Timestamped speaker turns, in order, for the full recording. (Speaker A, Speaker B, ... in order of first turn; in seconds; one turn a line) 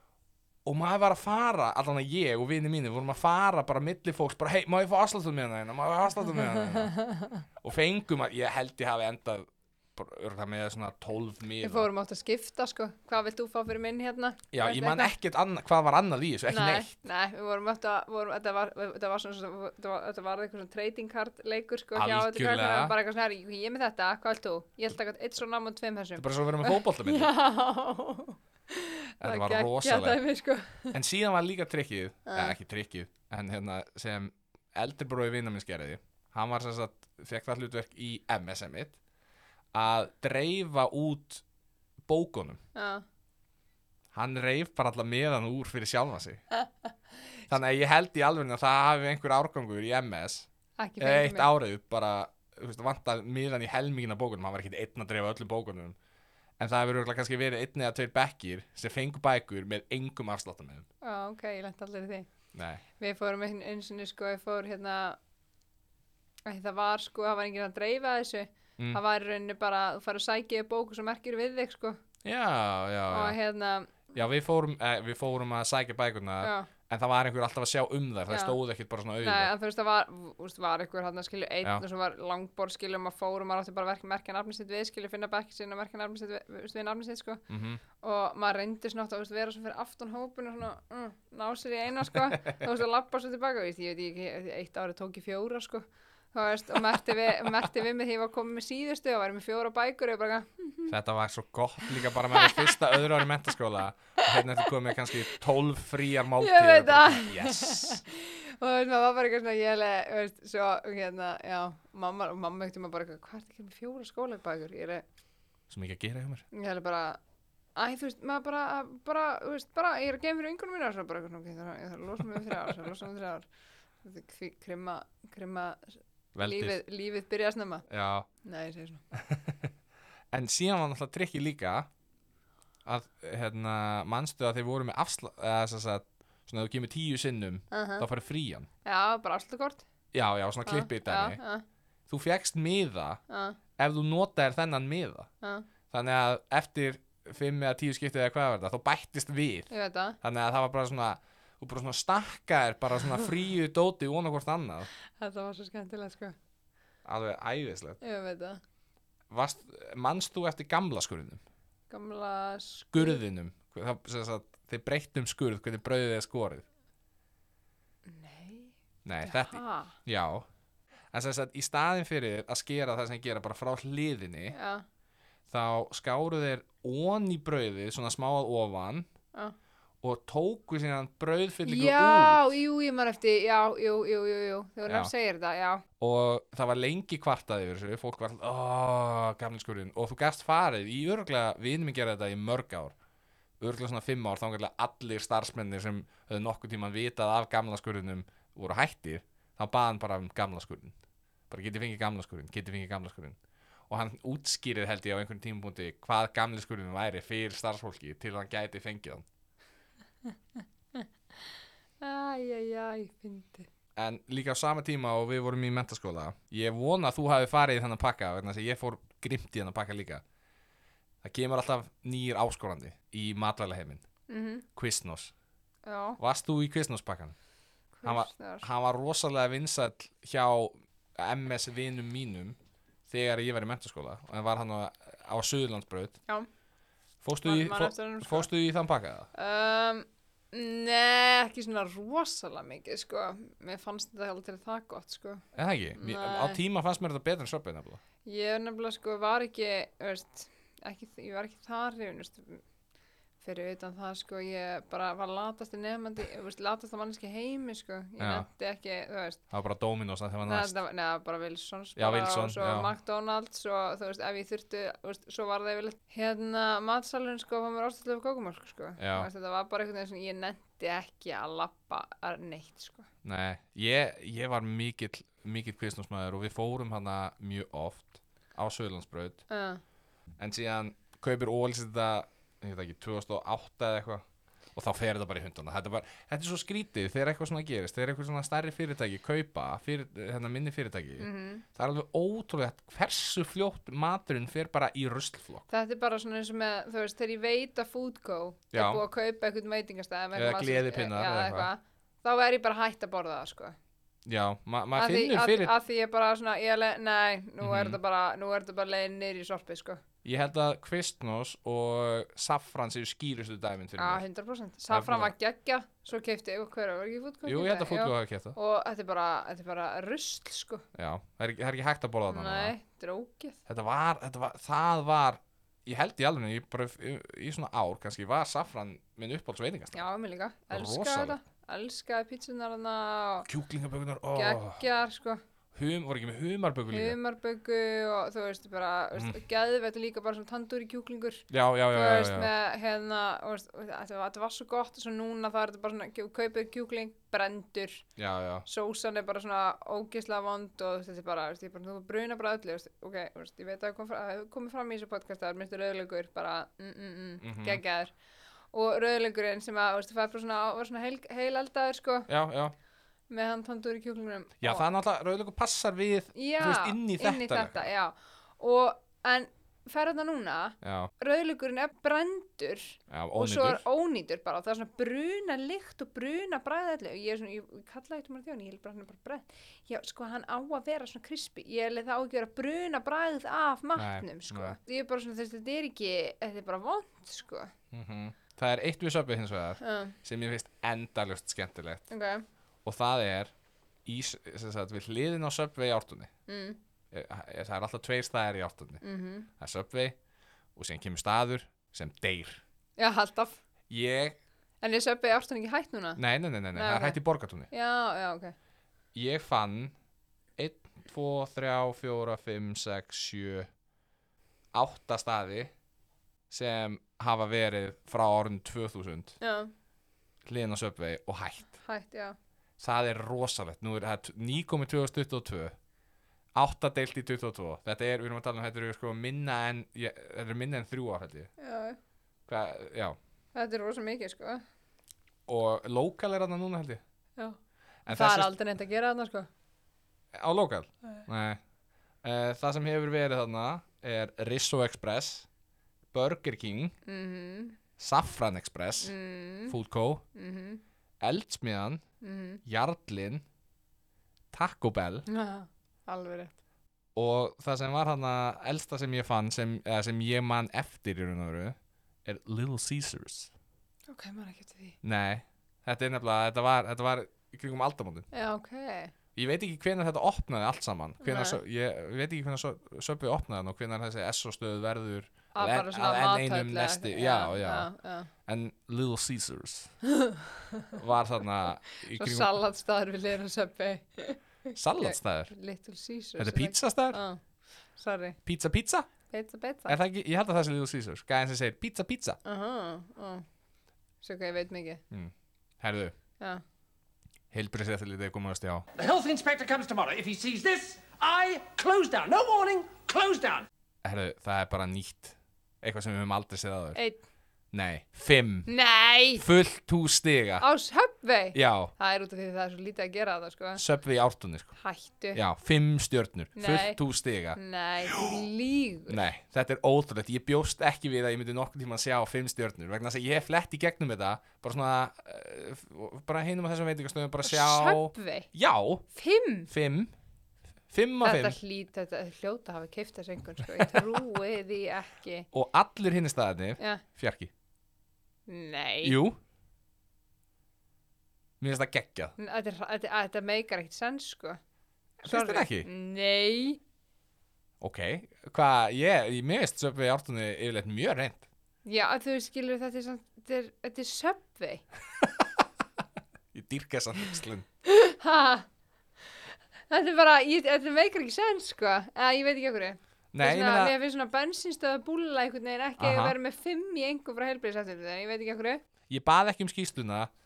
Speaker A: 0.6-7.0
Speaker B: 6.4-7.4
Speaker A: 7.6-11.9
Speaker B: 11.6-15.1
Speaker A: 14.5-16.9
Speaker B: 16.5-30.9
Speaker A: 21.9-22.9
Speaker A: 26.2-27.3
Speaker A: 29.2-30.2
Speaker A: 30.9-39.0
Speaker B: 32.3-32.6
Speaker A: 39.7-41.4
Speaker A: 42.1-42.6
Speaker B: 42.7-43.0
Speaker A: 44.1-46.4
Speaker A: 47.5-50.5
Speaker B: 50.8-51.5
Speaker A: 51.0-56.0
Speaker A: 56.6-60.9
Speaker B: 61.0-62.3
Speaker A: 62.5-62.8
Speaker B: 63.0-65.2
Speaker B: 66.5-72.0
Speaker A: 72.2-73.4
Speaker B: 73.1-74.0
Speaker A: 74.1-79.5
Speaker B: 76.4-76.7
Speaker B: 78.3-78.5
Speaker B: 79.2-87.4
Speaker A: 87.5-87.8
Speaker B: 88.0-100.9
Speaker A: 92.1-92.6
Speaker A: 100.9-108.0
Speaker B: 102.3-102.9
Speaker B: 106.4-115.0
Speaker A: 115.7-116.4
Speaker B: 116.5-117.2
Speaker B: 117.8-123.5
Speaker B: 124.0-127.9
Speaker A: 126.3-126.8
Speaker A: 127.9-128.3
Speaker B: 128.4-129.0
Speaker A: 129.1-129.7
Speaker A: 130.3-131.9
Speaker A: 132.8-138.7
Speaker B: 137.7-138.1
Speaker B: 138.8-139.8
Speaker A: 140.1-141.4
Speaker B: 140.6-141.6
Speaker A: 142.1-143.2
Speaker B: 143.3-143.6
Speaker A: 143.8-145.3
Speaker B: 145.4-145.7
Speaker A: 145.9-149.7
Speaker B: 149.7-150.2
Speaker A: 150.2-154.9
Speaker B: 155.2-156.3
Speaker A: 157.0-158.0
Speaker B: 158.0-158.6
Speaker A: 159.3-161.4
Speaker B: 161.9-163.2
Speaker A: 162.9-166.6
Speaker B: 168.1-169.9
Speaker A: 169.0-170.4
Speaker A: 171.1-174.6
Speaker B: 174.5-174.8
Speaker A: 175.5-179.1
Speaker A: 180.0-182.5
Speaker B: 181.6-185.8
Speaker A: 184.8-185.1
Speaker A: 186.0-192.9
Speaker A: 193.6-201.0
Speaker A: 201.5-203.4
Speaker A: 203.9-209.2
Speaker B: 210.3-213.7
Speaker A: 213.9-220.2
Speaker A: 221.2-224.0
Speaker B: 224.3-224.7
Speaker A: 224.7-225.3
Speaker B: 225.8-226.2
Speaker A: 226.2-227.3
Speaker B: 228.0-228.7
Speaker A: 228.0-232.6
Speaker A: 233.1-236.2
Speaker A: 237.2-239.3
Speaker B: 237.4-238.5
Speaker B: 239.3-245.4
Speaker A: 245.5-248.0
Speaker B: 246.0-246.6
Speaker B: 248.2-252.6
Speaker B: 253.4-259.4
Speaker A: 258.2-258.5
Speaker A: 259.5-260.8
Speaker B: 260.4-273.1
Speaker A: 261.9-262.9
Speaker A: 269.0-269.3
Speaker A: 273.2-279.4
Speaker B: 279.5-279.8
Speaker A: 280.4-284.2
Speaker A: 284.7-295.6
Speaker B: 291.2-291.6
Speaker B: 295.7-303.8
Speaker A: 298.7-299.0
Speaker A: 300.3-301.7
Speaker A: 304.2-305.7
Speaker B: 304.9-310.0
Speaker A: 307.6-308.0
Speaker A: 310.2-314.2
Speaker B: 314.0-320.8
Speaker A: 314.9-315.3
Speaker A: 317.4-318.6
Speaker A: 320.9-322.7
Speaker B: 322.3-323.6
Speaker A: 323.6-330.0
Speaker B: 329.9-333.5
Speaker A: 330.7-331.4
Speaker A: 333.5-334.8
Speaker B: 334.3-335.4
Speaker A: 335.7-337.2
Speaker B: 336.9-348.1
Speaker A: 341.5-342.5
Speaker A: 348.2-348.6
Speaker B: 348.6-358.1
Speaker A: 357.4-357.8
Speaker B: 358.7-362.3
Speaker A: 362.3-362.7
Speaker B: 363.3-364.8
Speaker A: 364.6-367.9
Speaker B: 366.3-387.7
Speaker A: 370.8-371.1
Speaker A: 373.1-373.8
Speaker A: 383.9-384.8
Speaker A: 387.9-392.1
Speaker B: 389.8-390.1
Speaker B: 392.1-392.4
Speaker A: 392.8-393.5
Speaker A: 394.0-396.3
Speaker B: 396.5-396.8
Speaker A: 397.1-399.0
Speaker B: 399.0-399.5
Speaker A: 399.6-400.2
Speaker A: 400.8-402.6
Speaker B: 403.0-403.6
Speaker A: 403.9-404.4
Speaker B: 404.8-406.2
Speaker A: 406.2-407.7
Speaker B: 406.7-407.2
Speaker B: 407.7-408.5
Speaker A: 409.1-409.9
Speaker A: 410.6-413.7
Speaker A: 414.7-415.7
Speaker A: 416.5-419.4
Speaker B: 419.4-419.7
Speaker A: 420.4-421.8
Speaker B: 421.8-422.4
Speaker A: 422.8-425.7
Speaker A: 426.5-431.5
Speaker B: 431.6-432.0
Speaker A: 432.5-433.2
Speaker B: 433.5-434.6
Speaker A: 435.5-437.0
Speaker A: 438.1-438.5
Speaker B: 438.1-439.5
Speaker A: 440.3-441.6
Speaker A: 442.2-445.5
Speaker A: 446.1-446.9
Speaker B: 447.0-447.8
Speaker A: 448.0-449.1
Speaker B: 449.0-449.8
Speaker A: 449.7-450.2
Speaker B: 450.3-450.8
Speaker A: 451.2-452.0
Speaker B: 452.2-452.6
Speaker A: 452.6-453.4
Speaker A: 454.5-455.2
Speaker B: 455.3-456.5
Speaker A: 457.1-463.5
Speaker B: 464.1-465.0
Speaker A: 465.0-468.3
Speaker B: 468.3-469.1
Speaker A: 469.3-477.9
Speaker B: 471.2-471.6
Speaker B: 475.5-478.3
Speaker A: 478.4-479.9
Speaker B: 480.1-480.9
Speaker A: 480.9-482.5
Speaker B: 482.1-487.4
Speaker A: 484.7-485.5
Speaker A: 486.4-487.2
Speaker B: 488.0-488.4
Speaker A: 488.4-489.1
Speaker B: 489.3-490.0
Speaker A: 489.9-492.4
Speaker B: 492.4-493.4
Speaker B: 494.2-495.0
Speaker A: 495.1-496.1
Speaker A: 497.5-498.9
Speaker C: 499.0-503.6
Speaker A: 504.0-507.0
Speaker B: 506.9-507.2
Speaker A: 507.7-508.7
Speaker B: 508.6-509.4
Speaker A: 509.4-510.6
Speaker B: 510.6-513.8
Speaker A: 511.5-511.9
Speaker A: 513.8-514.8
Speaker B: 514.8-515.4
Speaker A: 515.3-518.4
Speaker B: 516.5-517.0
Speaker B: 517.5-519.2
Speaker A: 519.1-529.0
Speaker B: 527.4-528.5
Speaker B: 529.1-529.7
Speaker A: 529.7-530.1
Speaker A: 530.9-531.6
Speaker B: 531.2-535.5
Speaker A: 535.5-537.5
Speaker B: 536.8-537.0
Speaker B: 538.5-539.2
Speaker A: 539.0-539.4
Speaker A: 541.6-542.3
Speaker B: 542.4-544.6
Speaker B: 545.2-546.8
Speaker A: 545.2-545.9
Speaker A: 547.8-551.5
Speaker B: 551.9-554.8
Speaker A: 555.2-555.6
Speaker A: 556.5-557.6
Speaker B: 557.8-558.7
Speaker B: 559.9-568.8
Speaker A: 563.3-563.9
Speaker A: 566.0-566.4
Speaker A: 569.1-570.3